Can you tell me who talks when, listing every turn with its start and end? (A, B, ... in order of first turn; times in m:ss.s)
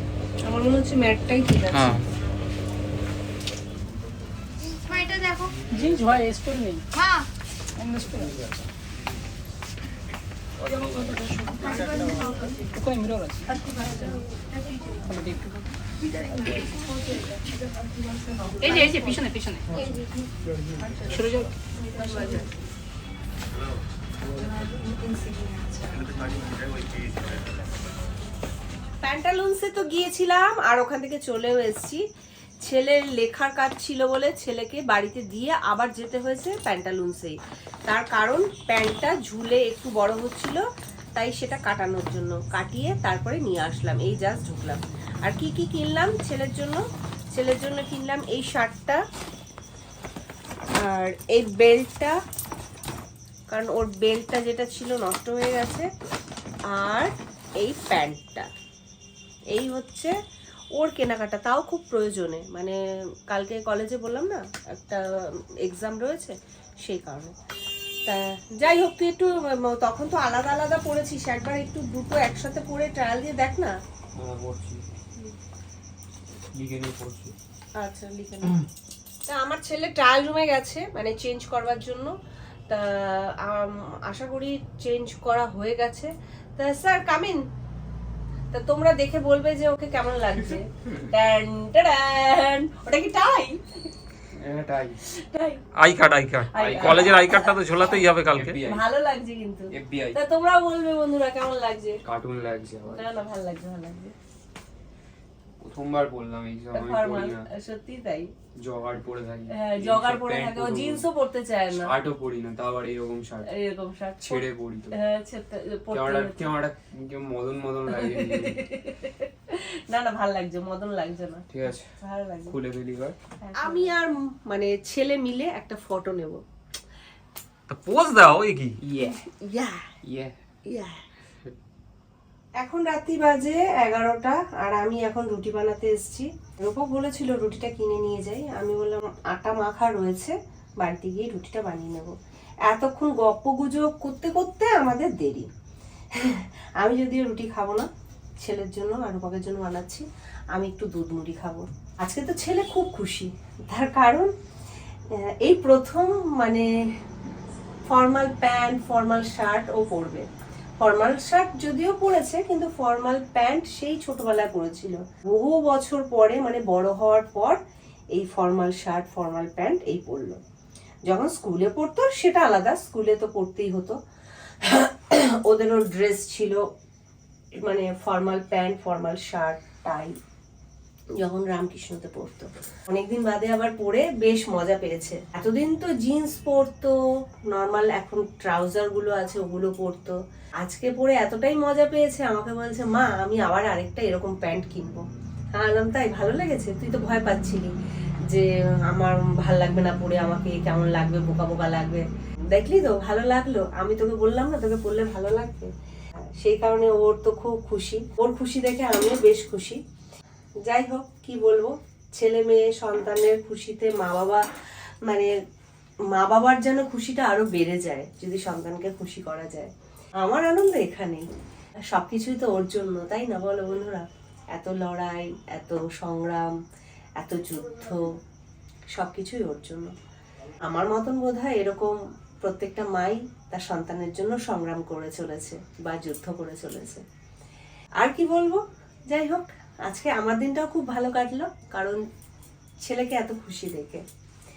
0:00.4-0:02.0 A
0:01.7-0:02.0 B
0:04.8-0:05.5 A
0:05.7-0:06.9 C
0:07.8-0:08.3 C
0:10.6-0:12.0 D
0:10.8-0:13.4 C
0:11.7-0:12.6 A
0:13.5-0:15.1 A
0:15.1-0:15.4 C
0:16.2-0:22.6 A
0:18.8-0:19.6 C
0:24.4-0:26.5 A
0:29.0-0:32.0 A
0:32.6-0:37.4 A
0:37.9-0:40.6 A
0:41.2-0:46.8 A
0:47.3-0:49.0 A
0:50.8-0:52.2 A
0:53.5-0:55.9 A
0:56.7-0:58.5 A
0:59.5-1:00.1 A
1:00.8-1:02.8 A
1:03.3-1:05.0 A
1:05.6-1:07.4 A
1:08.0-1:13.7 A
1:14.2-1:14.8 D
1:16.5-1:17.3 D
1:17.8-1:18.6 A
1:19.2-1:22.1 A
1:22.7-1:27.4 A
1:28.5-1:33.6 A
1:34.4-1:35.0 D
1:35.0-1:35.6 A
1:35.8-1:38.6 B
1:36.5-1:37.8 A
1:36.6-1:37.1 D
1:38.3-1:38.8 D
1:38.6-1:42.0 A
1:39.7-1:40.2 D
1:42.0-1:43.0 D
1:42.9-1:44.1 A
1:45.6-1:47.4 D
1:46.7-1:48.3 A
1:48.6-1:51.0 D
1:49.5-1:51.9 A
1:51.7-1:53.5 D
1:53.5-1:56.5 A
1:54.2-1:54.9 D
1:55.9-1:58.6 D
1:57.9-2:02.5 A
2:01.5-2:01.9 D
2:02.5-2:03.2 D
2:03.5-2:06.4 A
2:07.7-2:08.8 B
2:08.8-2:09.2 D
2:09.0-2:09.8 A
2:10.0-2:10.4 D
2:10.6-2:11.0 A
2:12.6-2:22.1 A
2:22.6-2:25.5 A
2:26.1-2:27.9 A
2:28.4-2:34.3 A
2:35.4-2:36.7 A
2:37.9-2:40.3 A
2:40.8-2:47.6 A
2:48.1-2:50.4 A
2:51.0-2:54.0 A
2:54.6-2:56.6 A
2:57.6-3:00.2 A
3:01.2-3:07.0 A
3:07.5-3:15.0 A
3:15.5-3:17.7 A
3:18.3-3:25.7 A
3:26.4-3:29.8 A
3:30.6-3:34.4 A
3:35.0-3:35.3 A
3:36.1-3:41.3 A
3:41.9-3:46.5 A
3:47.2-3:48.1 A
3:48.9-3:49.9 A
3:50.6-3:57.0 A
3:58.0-4:02.0 A
4:02.8-4:04.0 A